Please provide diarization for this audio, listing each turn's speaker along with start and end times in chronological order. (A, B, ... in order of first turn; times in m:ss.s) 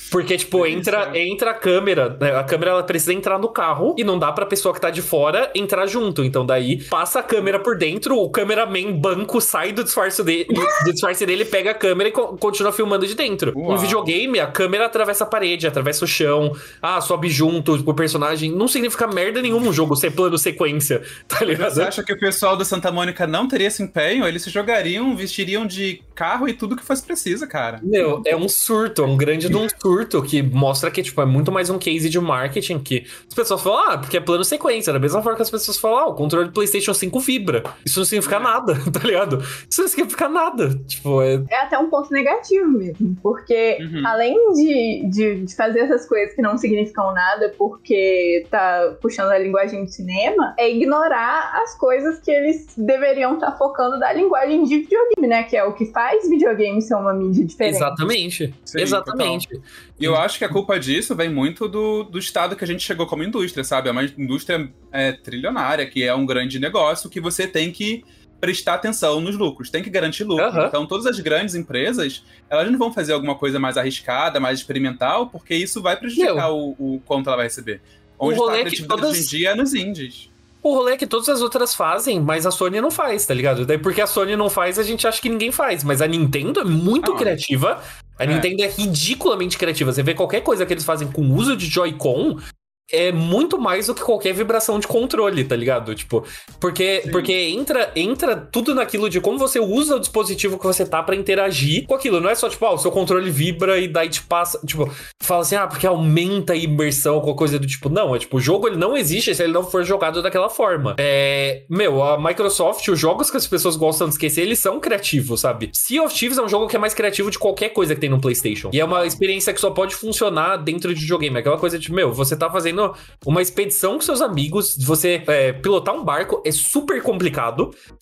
0:00.1-0:21.9 A
0:00.5-0:01.2 B
0:13.5-0:14.1 B
0:21.5-0:27.9 B
0:27.8-0:41.5 A
0:38.2-0:38.5 B
0:41.5-0:58.0 C
0:43.8-0:44.2 B
0:57.6-1:00.2 A
0:58.7-0:59.4 B
1:00.0-1:20.3 B
1:10.4-1:10.8 A
1:16.2-1:16.5 A
1:18.2-1:19.3 A
1:20.6-1:32.4 A
1:27.0-1:27.4 B
1:28.2-1:28.5 B
1:32.9-2:07.8 A
1:37.0-1:37.3 B
1:58.9-1:59.2 B